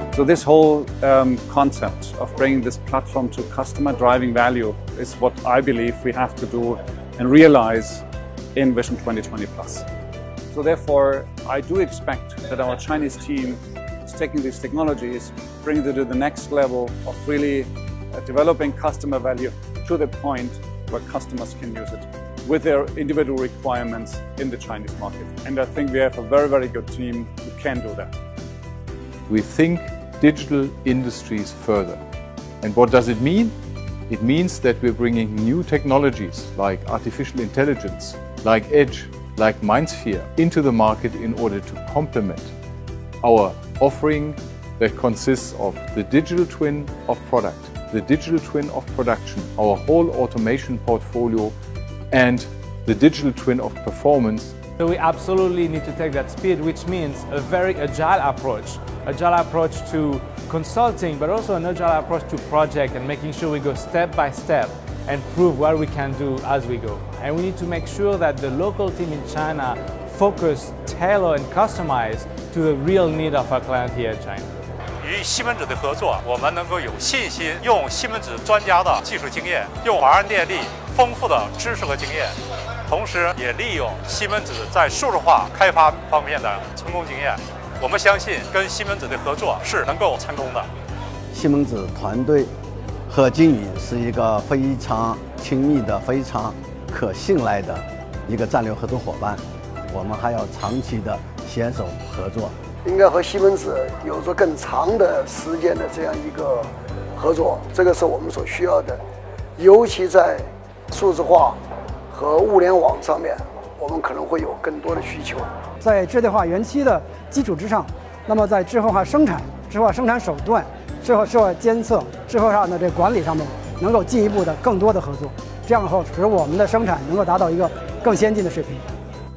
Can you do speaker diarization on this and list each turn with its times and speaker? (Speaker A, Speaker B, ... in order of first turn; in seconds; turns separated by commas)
Speaker A: 0.1-9.8, Speaker A: 10.5-28.1, Speaker B: 29.3-32.0, Speaker B: 32.6-33.5, Speaker B: 34.1-42.5, Speaker B: 43.2-51.5, Speaker B: 52.1-54.5, Speaker C: 54.8-74.5, Speaker D: 75.0-82.3, Speaker D: 82.9-90.6, Speaker E: 91.3-92.5, Speaker E: 93.1-102.5, Speaker F: 102.8-109.0, Speaker F: 109.6-111.6, Speaker F: 112.1-115.5, Speaker G: 115.8-128.8